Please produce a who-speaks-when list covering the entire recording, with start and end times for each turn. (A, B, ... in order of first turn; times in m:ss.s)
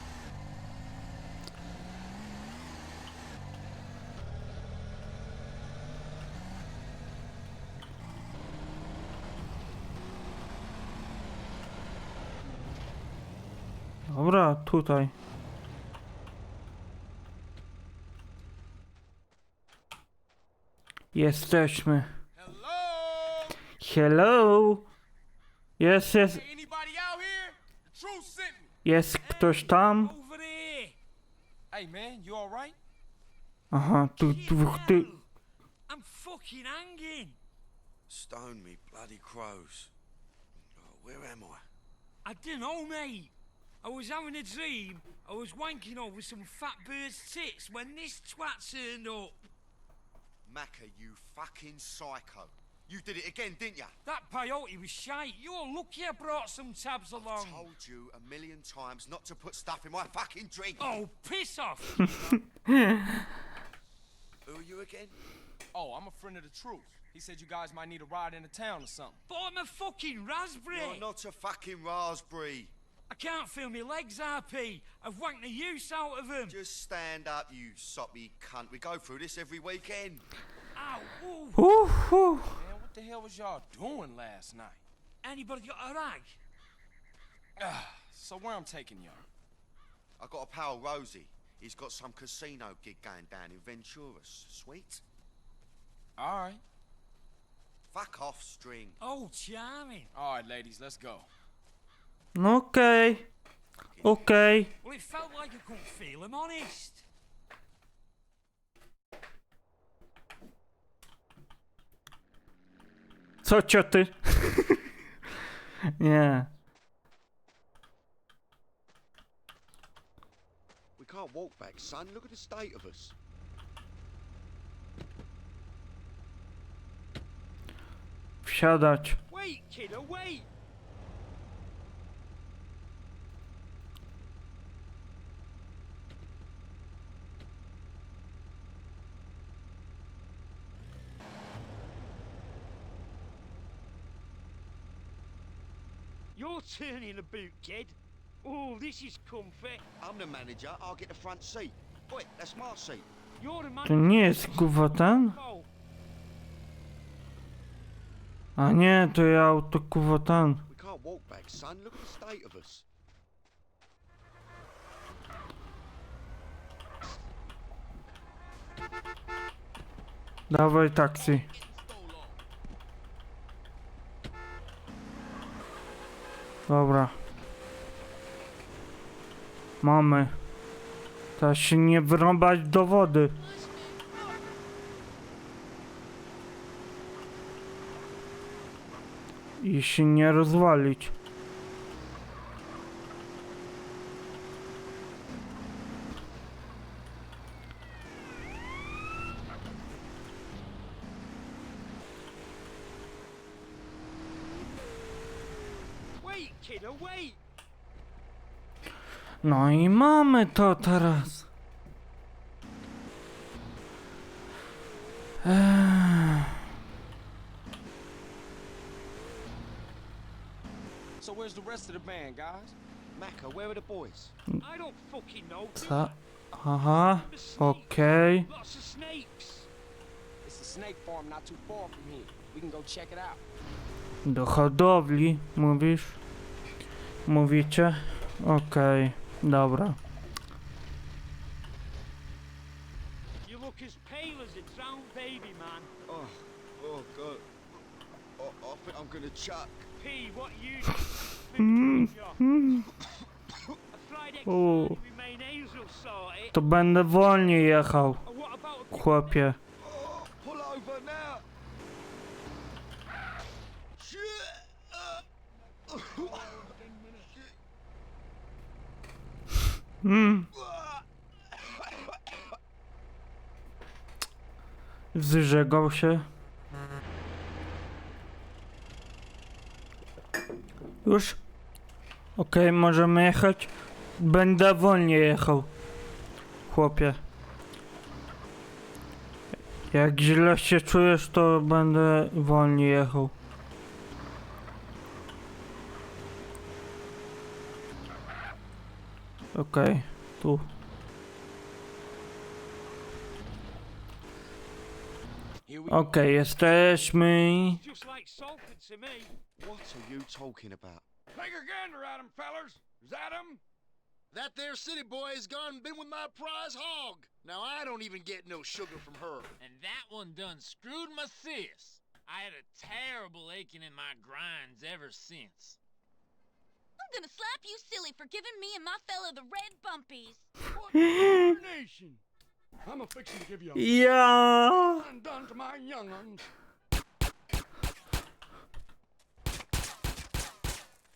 0:14.1-0:15.1 A
0:21.1-0:22.1 A
0:22.4-0:23.6 B
0:23.8-0:24.9 A
0:25.8-0:26.4 A
0:26.2-0:28.7 B
0:28.8-0:30.1 A
0:29.2-0:31.0 C
0:31.7-0:32.8 B
0:33.7-0:35.1 A
0:34.2-0:35.2 C
0:35.9-0:37.4 C
0:38.1-0:39.9 D
0:40.7-0:41.6 D
0:42.2-0:49.4 C
0:50.5-0:54.0 D
0:54.0-0:57.7 C
0:57.2-1:01.0 D
1:00.8-1:02.4 C
1:02.7-1:03.1 A
1:04.4-1:05.2 D
1:05.7-1:09.2 B
1:09.3-1:11.0 C
1:10.7-1:12.7 D
1:13.1-1:16.6 C
1:16.5-1:20.2 D
1:20.8-1:21.6 C
1:21.6-1:22.6 A
1:22.6-1:24.8 B
1:25.2-1:26.4 C
1:27.6-1:29.3 B
1:30.2-1:35.0 D
1:36.2-1:36.6 B
1:37.9-1:39.0 D
1:39.0-1:40.1 C
1:40.1-1:41.3 B
1:42.4-1:43.3 A
1:44.0-1:44.7 A
1:44.8-1:47.0 C
1:53.4-1:54.8 A
1:56.0-1:56.5 A
2:01.0-2:03.2 D
2:08.4-2:09.2 A
2:09.3-2:10.5 C
2:26.4-2:29.8 C
2:30.0-2:33.1 D
2:33.4-2:35.7 C
2:33.9-2:35.4 A
2:38.6-2:40.6 A
2:40.7-2:42.8 D
2:50.5-2:51.5 A
2:51.4-2:52.2 B
2:56.7-2:57.2 A
2:59.8-3:00.3 A
3:01.4-3:03.4 A
3:09.6-3:11.1 A
3:26.2-3:27.4 C
3:29.4-3:31.5 A
3:35.4-3:36.6 A
3:41.2-3:42.8 B
3:43.2-3:44.4 D
3:44.6-3:46.2 C
3:45.8-3:48.5 A
3:47.0-3:49.7 C
3:50.4-3:53.4 B
3:54.2-3:56.2 A
3:57.3-4:00.0 A
4:03.4-4:05.9 C
4:06.1-4:07.5 D
4:08.4-4:09.9 D
4:10.0-4:12.4 C
4:11.6-4:12.8 A
4:13.9-4:16.6 C
4:14.5-4:15.0 A
4:16.5-4:18.2 A
4:18.2-4:19.4 C
4:18.9-4:19.6 A
4:19.8-4:21.4 D
4:24.0-4:25.2 D
4:25.9-4:26.7 D
4:25.9-4:27.3 E
4:30.0-4:30.5 A
4:30.5-4:32.2 D
4:35.2-4:36.2 A
4:41.0-4:41.4 A
4:42.4-4:45.7 A
4:46.7-4:47.2 A
4:49.9-4:53.3 A
4:59.6-5:00.6 A
5:05.7-5:07.2 B
5:05.9-5:07.8 A
5:07.5-5:09.3 C
5:09.6-5:11.0 D
5:11.3-5:13.6 E
5:14.3-5:19.6 F
5:19.6-5:25.8 G
5:27.0-5:30.5 H
5:30.7-5:32.2 E
5:31.0-5:31.5 A
5:32.8-5:33.9 E
5:33.8-5:35.1 A
5:34.9-5:36.5 E